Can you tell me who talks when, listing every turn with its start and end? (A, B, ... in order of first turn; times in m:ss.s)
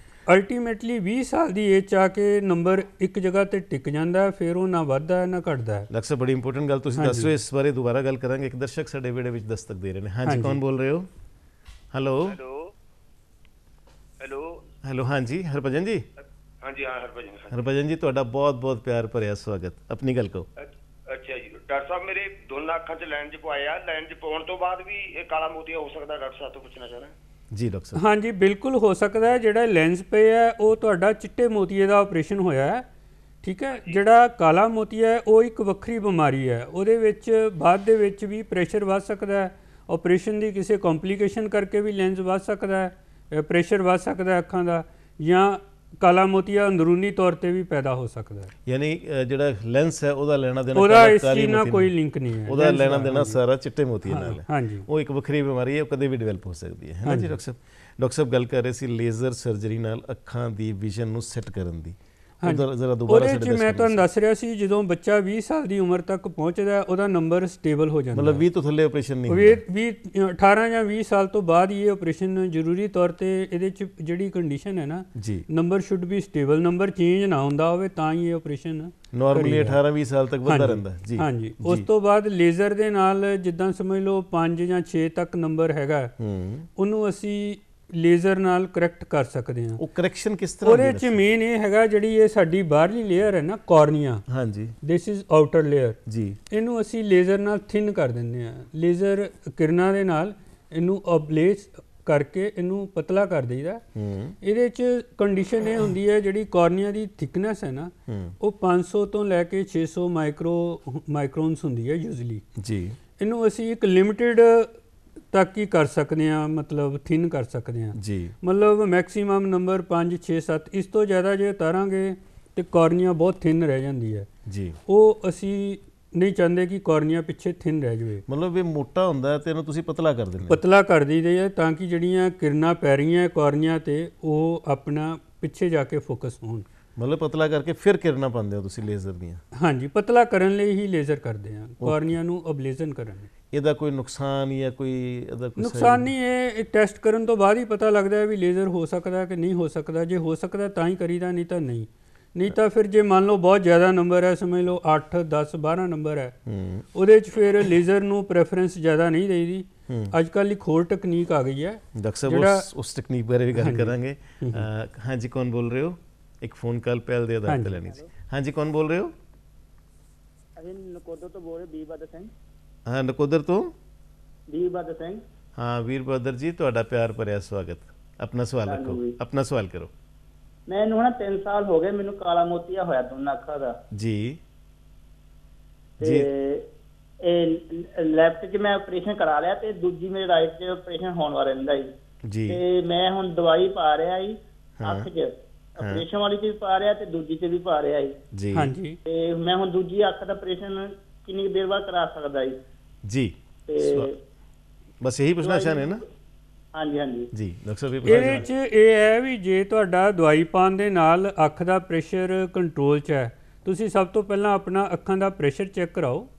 0:00.3-0:05.9 A
0:05.9-0:11.1 B
0:07.0-0:07.3 A
0:10.2-0:10.6 A
0:11.9-0:12.4 B
0:12.2-0:12.7 C
0:14.2-0:14.6 C
0:14.8-0:16.0 B
0:16.6-0:17.6 C
0:17.5-0:20.5 B
0:20.6-0:27.1 C
0:27.5-0:28.0 B
0:27.9-0:32.9 A
0:33.4-0:48.5 A
0:48.6-0:51.9 B
0:50.7-0:53.4 A
0:52.4-1:04.0 B
0:54.1-0:54.9 A
0:57.0-0:57.4 A
1:02.4-1:08.4 A
1:08.1-1:09.6 B
1:09.3-1:19.8 A
1:15.1-1:15.4 B
1:19.1-1:21.9 B
1:20.4-1:26.1 A
1:26.2-1:26.7 B
1:26.8-1:29.8 A
1:29.8-1:31.2 B
1:30.6-1:34.2 A
1:34.3-1:34.8 B
1:34.8-1:36.0 A
1:36.0-1:36.4 B
1:36.5-1:43.8 A
1:43.9-1:44.4 B
1:44.4-1:52.4 A
1:48.1-1:48.4 B
1:52.6-1:53.0 B
1:53.2-1:54.8 A
1:55.3-2:04.3 A
1:57.9-1:58.3 B
2:04.4-2:04.8 B
2:04.9-2:08.2 A
2:08.3-2:10.6 B
2:10.5-2:16.6 A
2:17.0-2:19.4 B
2:19.5-2:23.3 A
2:21.8-2:22.1 B
2:23.5-2:26.1 B
2:25.6-2:36.4 A
2:36.4-2:36.8 B
2:36.9-2:42.7 A
2:39.9-2:40.1 B
2:41.9-2:49.1 B
2:43.5-2:44.7 A
2:47.5-2:47.8 A
2:50.6-2:52.3 D
2:52.9-2:53.7 B
2:54.5-2:55.2 D
2:55.6-2:59.9 B
2:58.7-2:59.2 D
3:00.7-3:03.8 D
3:03.9-3:04.4 B
3:06.0-3:06.3 B
3:06.0-3:06.6 D
3:07.2-3:11.9 D
3:12.2-3:12.6 B
3:12.5-3:18.2 D
3:14.8-3:15.1 B
3:15.8-3:16.0 B
3:18.3-3:18.7 B
3:18.5-3:19.0 A
3:19.0-3:22.6 D
3:23.0-3:24.1 B
3:23.7-3:24.2 D
3:25.0-3:26.0 B
3:25.4-3:26.0 D
3:26.7-3:27.3 D
3:27.3-3:28.5 B
3:28.0-3:36.3 A
3:28.1-3:28.4 D